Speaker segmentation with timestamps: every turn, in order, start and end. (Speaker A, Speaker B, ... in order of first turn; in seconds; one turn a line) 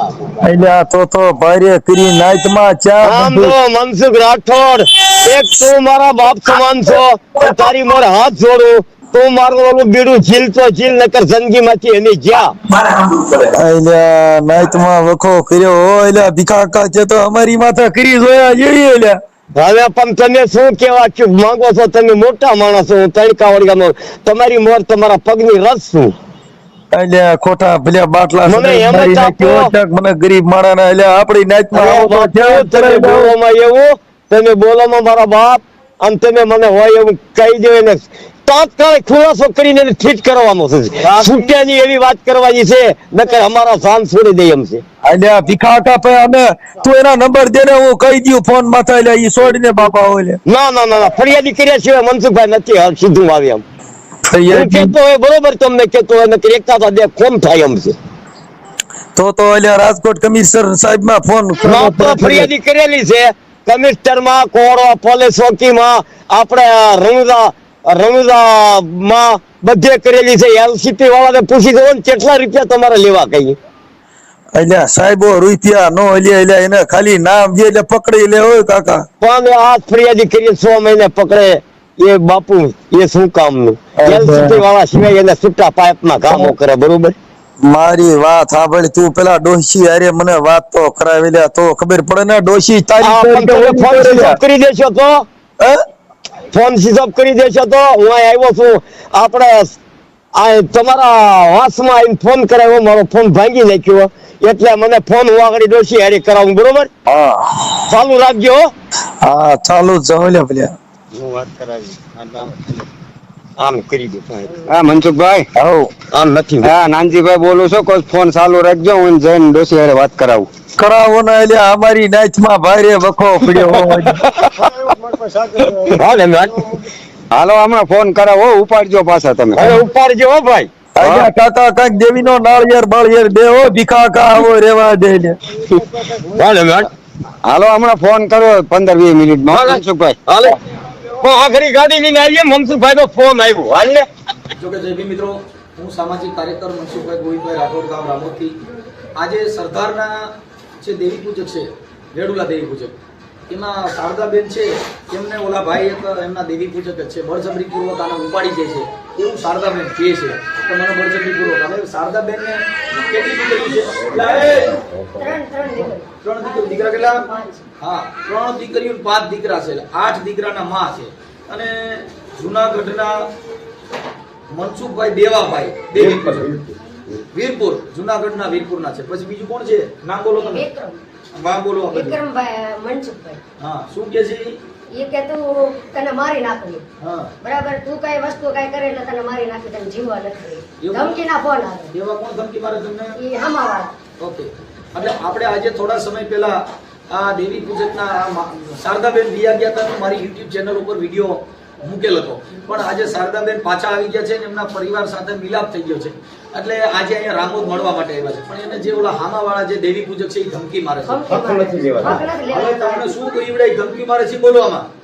Speaker A: 0.4-3.5
Speaker B: 3.0-12.5
Speaker A: 12.7-19.2
Speaker B: 19.6-26.1
Speaker A: 26.9-33.3
Speaker B: 28.5-29.7
Speaker B: 31.7-44.8
Speaker A: 45.1-50.4
Speaker B: 50.5-53.6
Speaker A: 54.3-54.9
Speaker B: 54.5-57.9
Speaker A: 59.2-62.5
Speaker B: 61.6-73.6
Speaker A: 74.5-79.1
Speaker B: 79.2-87.2
Speaker A: 84.0-84.6
Speaker A: 87.6-94.4
Speaker B: 93.0-95.2
Speaker B: 96.5-99.8
Speaker B: 100.4-106.9
Speaker A: 107.1-107.7
Speaker B: 107.9-108.7
Speaker A: 109.2-110.8
Speaker C: 111.2-112.4
Speaker B: 113.6-114.6
Speaker C: 114.7-115.5
Speaker A: 115.6-115.9
Speaker B: 116.1-116.7
Speaker C: 116.6-120.5
Speaker A: 120.8-124.2
Speaker B: 125.7-126.8
Speaker C: 127.3-129.8
Speaker B: 129.6-130.7
Speaker A: 131.0-135.3
Speaker B: 136.4-136.9
Speaker C: 137.4-140.2
Speaker B: 139.5-140.6
Speaker B: 141.2-144.1
Speaker D: 144.6-148.6
Speaker D: 149.2-153.0
Speaker D: 153.5-164.7
Speaker B: 164.0-165.3
Speaker E: 165.2-167.6
Speaker D: 166.2-167.2
Speaker D: 167.8-173.3
Speaker D: 174.5-176.5
Speaker B: 175.9-177.2
Speaker D: 177.3-180.7
Speaker E: 180.4-181.0
Speaker D: 181.3-182.2
Speaker E: 181.9-183.4
Speaker D: 183.6-184.6
Speaker E: 184.9-186.8
Speaker D: 187.0-187.3
Speaker E: 187.4-191.9
Speaker D: 190.8-191.2
Speaker D: 191.9-193.2
Speaker E: 193.2-193.9
Speaker D: 194.2-211.4
Speaker E: 211.1-213.0
Speaker B: 211.3-212.2
Speaker D: 212.0-214.9